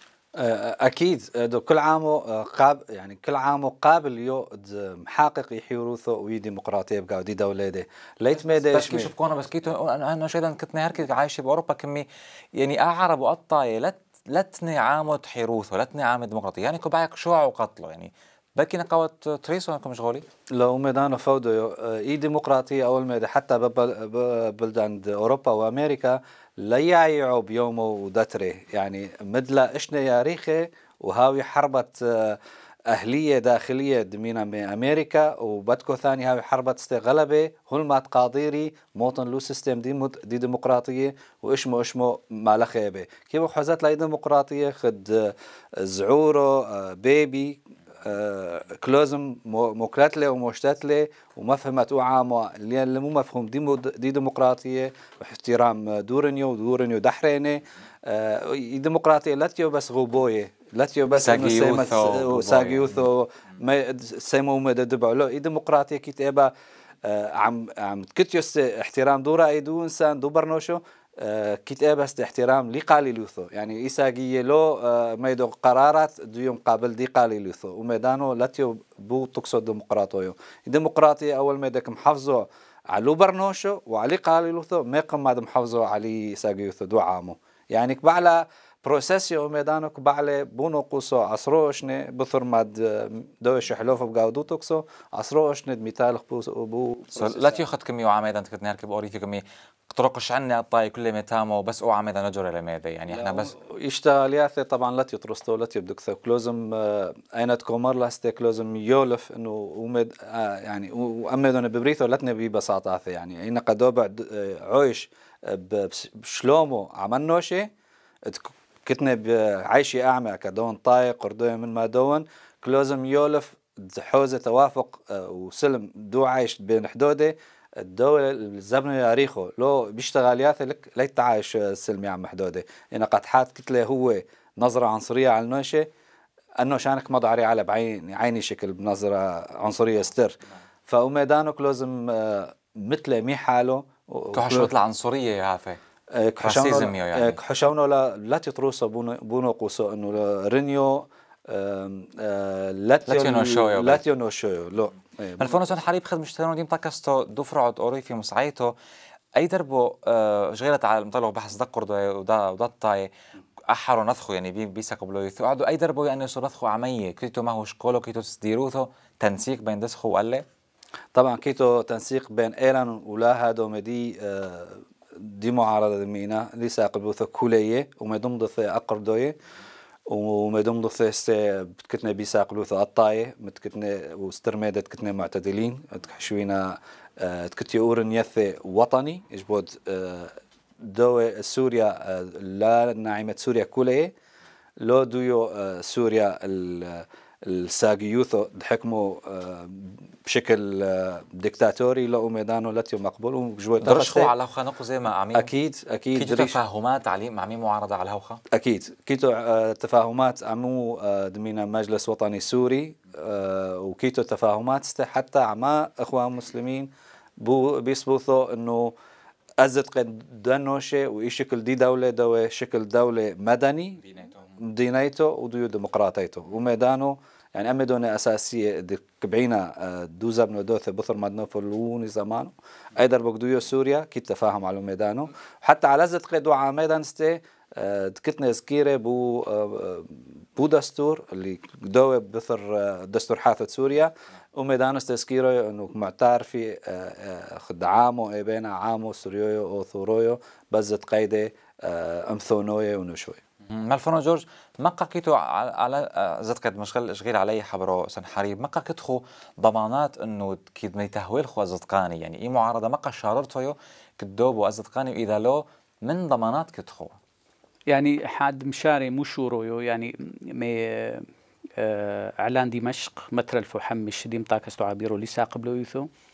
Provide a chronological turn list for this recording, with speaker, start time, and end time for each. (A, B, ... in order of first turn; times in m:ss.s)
0:00.4-0:09.1 A
0:08.4-0:20.2 B
0:20.5-1:06.5 A
1:01.2-1:03.0 B
1:07.0-1:37.7 A
1:37.2-1:43.5 B
1:43.1-1:57.7 A
1:58.2-2:15.9 A
2:16.6-2:24.7 A
2:24.3-2:25.8 B
2:26.1-2:35.8 A
2:26.4-2:27.4 B
2:33.1-2:34.0 B
2:35.4-2:38.7 B
2:39.4-2:43.1 B
2:43.7-2:50.4 B
2:51.1-2:59.4 A
3:00.1-3:14.1 A
3:14.8-3:24.3 A
3:23.8-3:25.5 B
3:25.3-3:26.6 A
3:26.1-3:28.4 B
3:28.5-3:38.9 A
3:39.6-3:44.0 A
3:44.6-4:13.4 A
4:13.7-4:27.1 B
4:27.9-4:31.3 C
4:31.8-4:36.1 C